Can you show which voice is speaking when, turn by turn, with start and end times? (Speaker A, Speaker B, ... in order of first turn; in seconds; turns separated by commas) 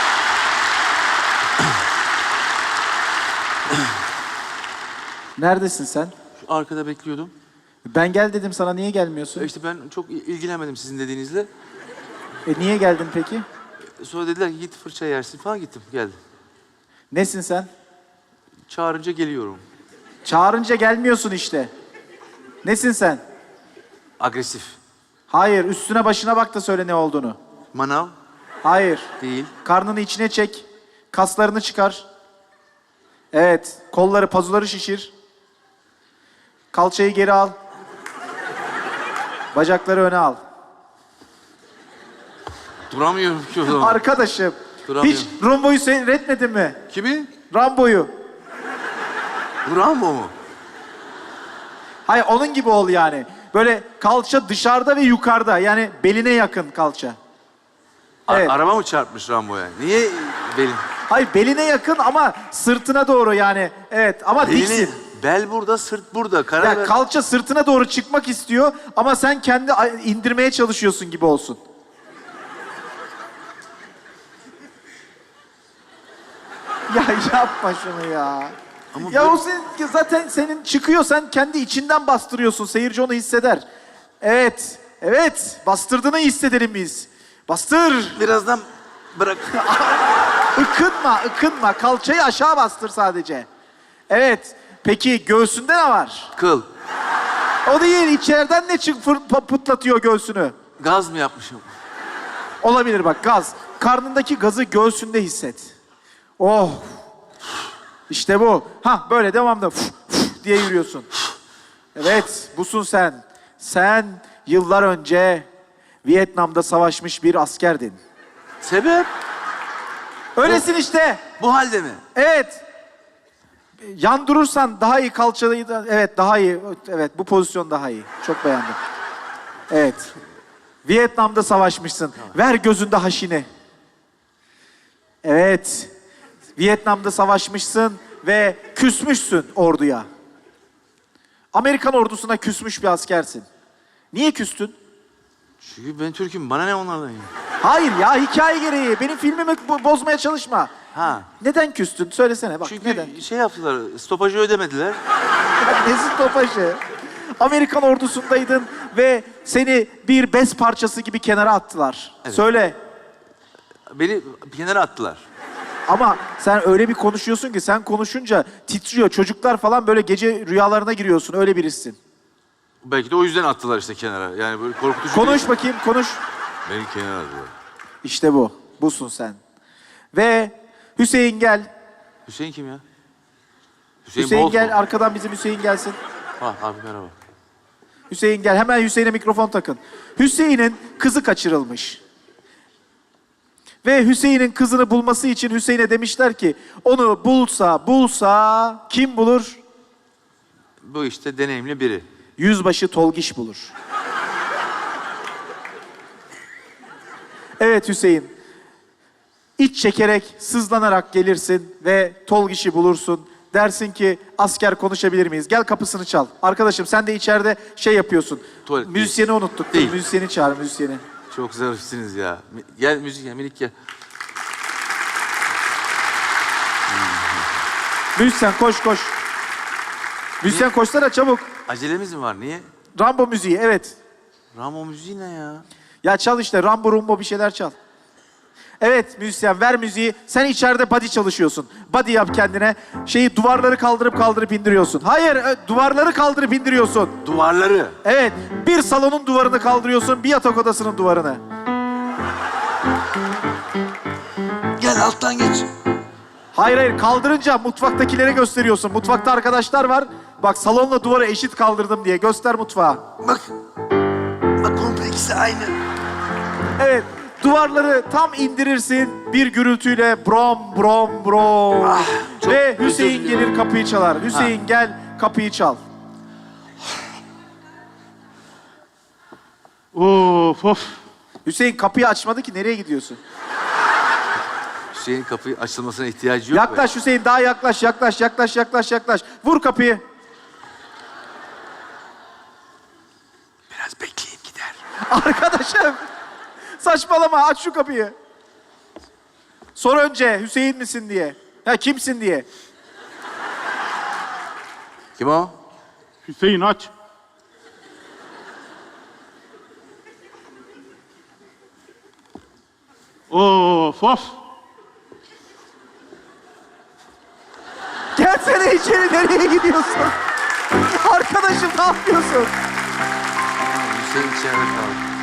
Speaker A: 5.4-6.1, Speaker B: 6.4-7.3, Speaker A: 7.8-9.5, Speaker B: 9.4-11.5, Speaker A: 12.5-13.4, Speaker B: 14.0-16.2, Speaker A: 17.1-17.7, Speaker B: 18.7-19.6, Speaker A: 20.2-21.7, Speaker A: 22.6-23.2, Speaker B: 24.2-24.8, Speaker A: 25.3-27.4, Speaker B: 27.7-28.1, Speaker A: 28.6-29.1, Speaker B: 29.2-29.5, Speaker A: 29.6-32.0, Speaker A: 33.3-35.1, Speaker A: 36.7-37.6, Speaker A: 39.5-40.4, Speaker B: 42.9-44.0, Speaker A: 43.7-46.8, Speaker B: 44.9-45.3, Speaker B: 46.9-47.3, Speaker A: 47.5-48.1, Speaker B: 49.6-50.3, Speaker A: 52.1-57.2, Speaker B: 58.3-60.8, Speaker A: 58.3-58.5, Speaker A: 61.1-64.9, Speaker B: 64.4-67.0, Speaker A: 66.6-71.6, Speaker A: 76.9-83.7, Speaker B: 78.9-79.4, Speaker A: 84.2-88.2, Speaker B: 88.2-89.7, Speaker A: 89.5-93.5, Speaker A: 94.1-96.3, Speaker B: 96.3-96.7, Speaker A: 97.7-100.5, Speaker B: 100.8-101.7, Speaker A: 102.6-105.7, Speaker A: 106.4-107.0, Speaker A: 108.1-111.1, Speaker A: 112.0-115.5, Speaker A: 116.0-118.0, Speaker B: 118.6-119.1, Speaker A: 120.4-121.2, Speaker B: 121.4-122.0, Speaker A: 122.1-122.6, Speaker A: 123.8-128.8, Speaker A: 129.7-130.1, Speaker A: 130.8-133.5, Speaker A: 135.2-135.9, Speaker A: 136.6-140.1, Speaker A: 141.5-143.5, Speaker A: 144.1-144.8, Speaker B: 145.6-147.3, Speaker A: 147.6-150.7, Speaker B: 150.9-151.3, Speaker A: 151.4-153.1, Speaker B: 152.6-155.0, Speaker A: 155.6-156.8, Speaker A: 157.4-162.8, Speaker B: 163.9-165.2, Speaker A: 165.9-172.0, Speaker B: 172.8-175.5, Speaker A: 175.1-176.2, Speaker B: 176.7-177.5, Speaker A: 178.0-179.4, Speaker A: 180.1-181.7, Speaker B: 182.3-182.8, Speaker B: 184.1-184.8, Speaker A: 184.2-186.0, Speaker B: 186.4-187.1, Speaker A: 188.1-192.0, Speaker A: 193.8-199.6, Speaker B: 200.8-202.1, Speaker A: 202.4-203.7, Speaker A: 207.6-208.3, Speaker A: 209.6-221.0, Speaker B: 218.7-220.0, Speaker B: 221.3-223.7, Speaker B: 226.9-227.3, Speaker A: 228.2-229.1, Speaker A: 230.4-231.4, Speaker B: 231.7-232.7, Speaker A: 233.0-234.0, Speaker B: 234.5-235.7, Speaker A: 236.0-237.8, Speaker A: 238.8-247.2, Speaker B: 247.2-248.0, Speaker A: 248.0-251.4, Speaker B: 254.8-255.7, Speaker A: 256.5-263.0, Speaker B: 263.2-263.5, Speaker B: 264.6-265.8, Speaker A: 266.8-275.8, Speaker B: 271.8-273.5, Speaker C: 279.9-281.0, Speaker A: 281.4-283.2, Speaker B: 284.9-286.9, Speaker A: 286.5-290.0, Speaker B: 293.7-294.8, Speaker A: 295.1-296.0, Speaker A: 296.8-298.1, Speaker A: 299.8-302.5, Speaker B: 305.2-305.5, Speaker C: 306.2-306.9, Speaker C: 313.3-314.4, Speaker A: 318.2-320.1, Speaker A: 320.8-322.5, Speaker B: 323.6-325.0